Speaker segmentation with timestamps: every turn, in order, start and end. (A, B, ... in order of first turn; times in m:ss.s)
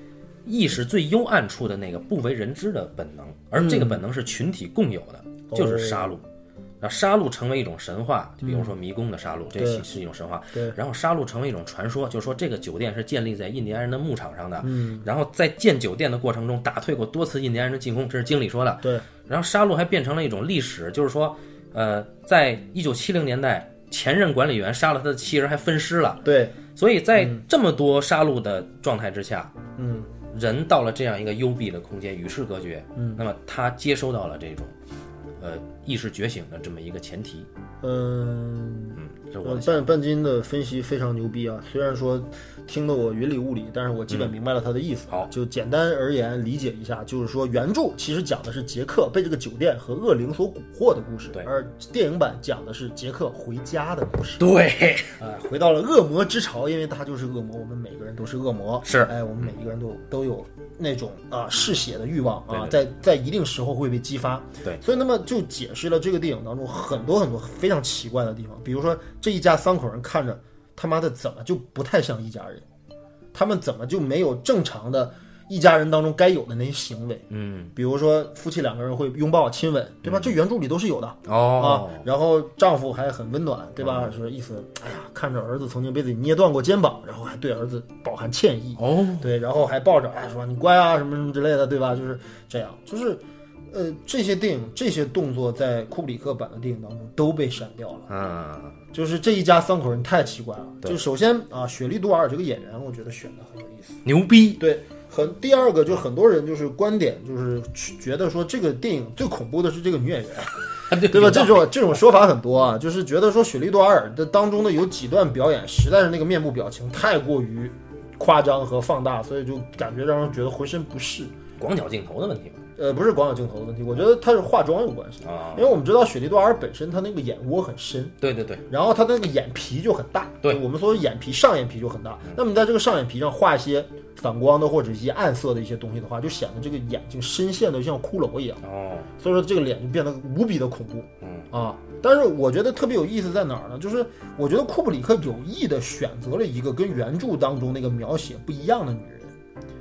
0:00.4-0:06.2 A
0:03.6-0:04.0 B
0:05.5-0:06.2 B
0:06.8-0:29.5 A
0:08.4-0:08.7 B
0:09.6-0:09.9 B
0:14.6-0:15.1 B
0:18.8-0:19.1 B
0:26.2-0:26.6 B
0:27.2-0:27.4 B
0:29.8-0:30.1 B
0:30.3-0:34.8 A
0:33.0-0:33.2 B
0:35.4-0:37.5 A
0:37.8-0:54.5 B
0:39.0-0:39.9 A
0:44.1-0:44.4 A
0:54.4-0:55.3 A
0:55.2-1:12.6 B
0:58.8-0:59.5 A
1:02.5-1:02.8 A
1:13.3-1:38.1 B
1:17.3-1:17.7 A
1:20.0-1:20.4 A
1:21.2-1:22.0 A
1:23.8-1:24.1 A
1:28.8-1:29.3 A
1:38.1-1:38.8 A
1:38.9-1:44.0 B
1:44.0-1:44.6 A
1:44.6-2:01.3 B
1:50.9-1:52.0 A
2:01.6-2:02.6 A
2:02.8-2:08.2 B
2:05.2-2:05.7 A
2:08.2-2:08.6 A
2:08.7-2:18.6 B
2:18.6-2:19.1 A
2:19.2-2:29.3 B
2:21.2-2:21.5 A